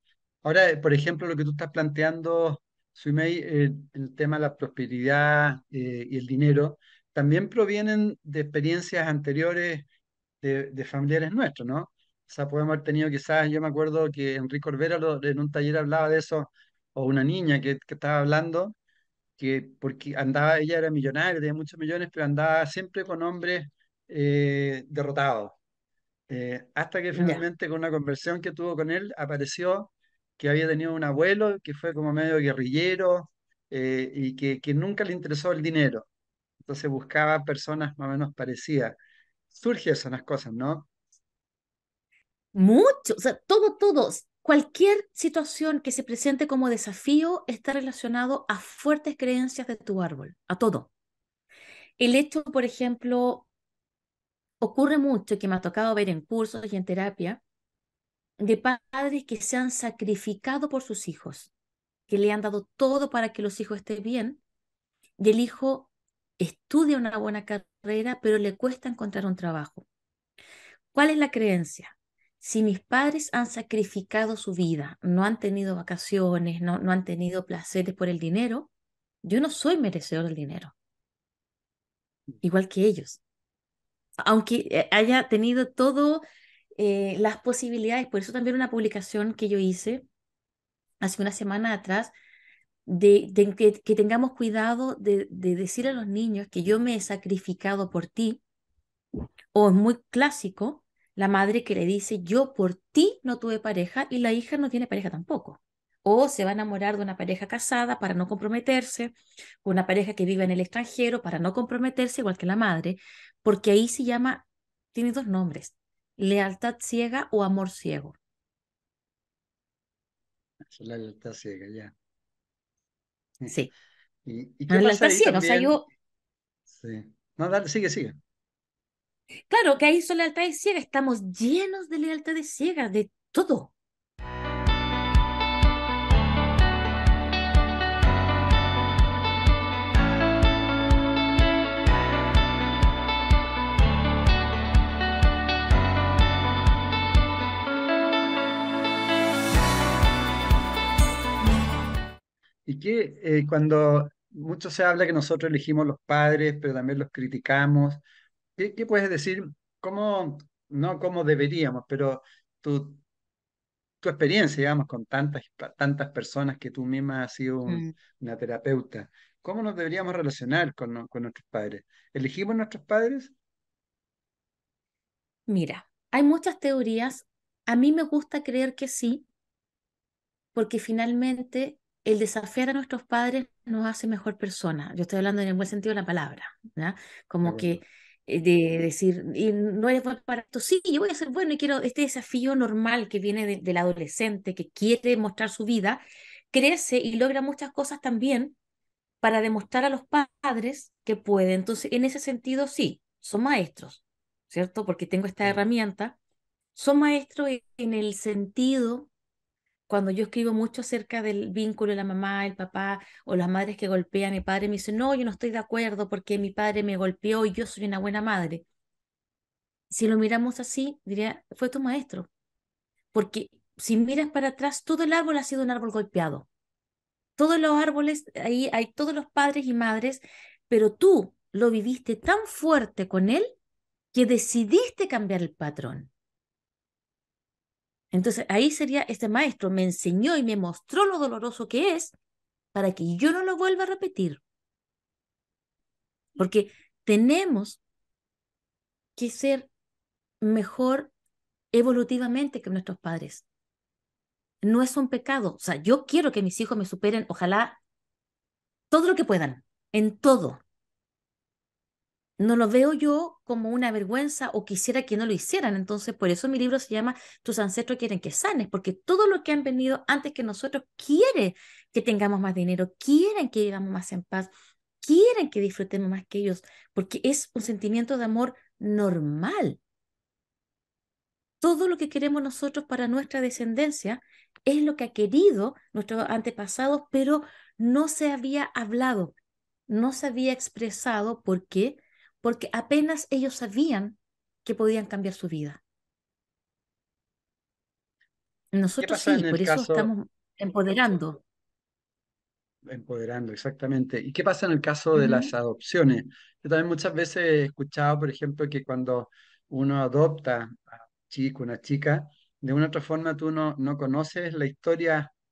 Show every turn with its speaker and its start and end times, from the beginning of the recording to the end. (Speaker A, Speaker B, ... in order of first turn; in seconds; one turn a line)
Speaker A: 0.4-9.9
Speaker A: 10.4-18.8
Speaker A: 19.4-25.6
Speaker A: 26.3-36.1
Speaker B: 27.1-27.4
Speaker A: 36.6-39.0
Speaker A: 39.5-40.9
Speaker B: 42.5-50.9
Speaker B: 52.0-53.5
Speaker B: 54.6-57.4
Speaker B: 58.4-61.5
Speaker B: 62.1-64.4
Speaker B: 65.2-69.8
Speaker B: 70.9-78.7
Speaker B: 79.2-80.7
Speaker B: 82.4-83.2
Speaker B: 84.2-86.2
Speaker B: 86.8-90.0
Speaker B: 91.0-92.1
Speaker B: 92.8-98.4
Speaker B: 99.5-118.2
Speaker A: 120.7-121.9
Speaker A: 124.2-125.8
Speaker B: 124.7-125.8
Speaker A: 126.7-128.2
Speaker B: 129.5-133.7
Speaker A: 152.7-158.0
Speaker A: 158.6-163.0
Speaker A: 164.0-173.3
Speaker B: 167.7-167.9
Speaker B: 175.5-179.2
Speaker B: 180.5-198.6
Speaker A: 187.4-187.8
Speaker B: 199.2-206.2
Speaker B: 206.7-209.1
Speaker B: 209.9-218.6
Speaker B: 219.9-222.3
Speaker B: 223.1-226.5
Speaker B: 227.4-233.5
Speaker B: 234.1-236.1
Speaker B: 238.1-242.1
Speaker B: 242.7-244.4
Speaker B: 246.4-247.8
Speaker B: 249.2-249.7
Speaker B: 250.4-251.1
Speaker B: 251.7-253.4
Speaker B: 254.6-257.8
Speaker B: 258.9-260.6
Speaker B: 262.4-279.8
Speaker B: 281.6-289.3
Speaker B: 289.9-295.8
Speaker B: 298.7-301.4
Speaker A: 299.0-300.1
Speaker A: 302.8-315.3
Speaker B: 305.1-305.5